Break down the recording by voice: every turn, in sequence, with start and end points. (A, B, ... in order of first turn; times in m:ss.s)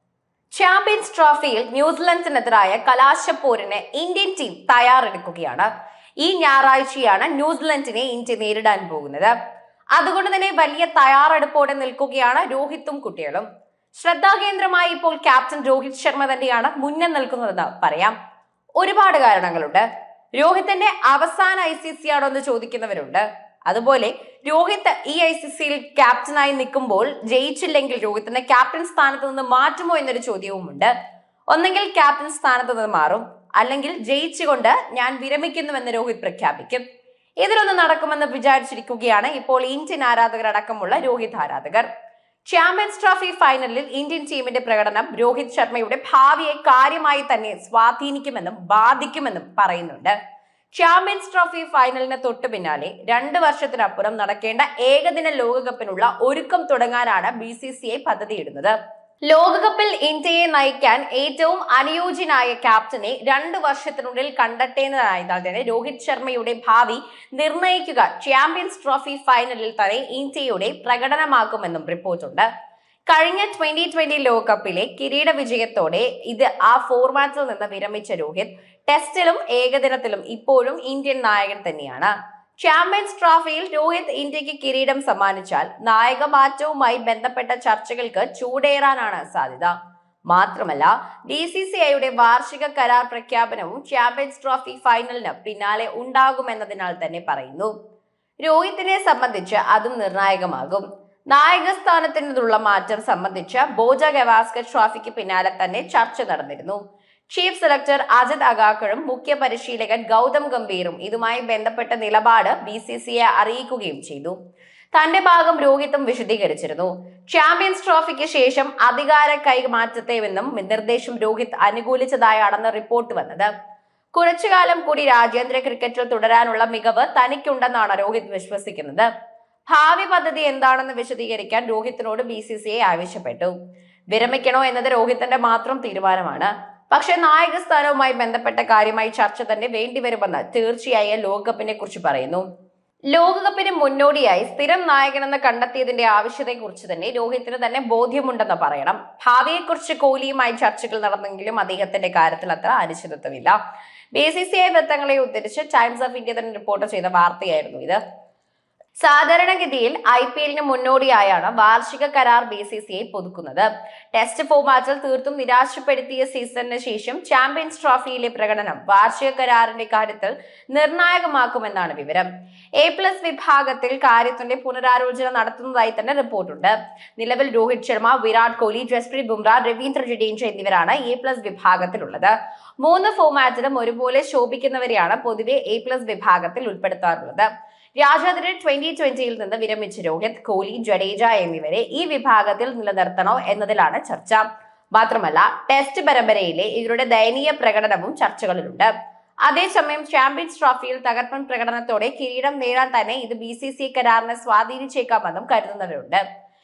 0:00.5-0:05.7 A
0:06.2-0:09.3 A
0:10.0-0:18.2 A
0:18.8-0:30.9 A
0:31.5-0:36.8 A
0:37.4-0:41.9 A
0:42.4-0:50.2 A
0:50.7-0:58.8 A
0:59.3-1:12.5 A
1:13.1-1:29.7 A
1:30.3-1:37.7 A
1:38.4-1:46.8 A
1:47.3-1:54.4 A
1:54.9-2:03.5 A
2:04.1-2:09.1 A
2:09.7-2:13.5 A
2:14.1-2:22.5 A
2:23.1-2:33.6 A
2:34.1-2:38.0 A
2:39.0-3:18.9 A
3:19.4-3:26.2 A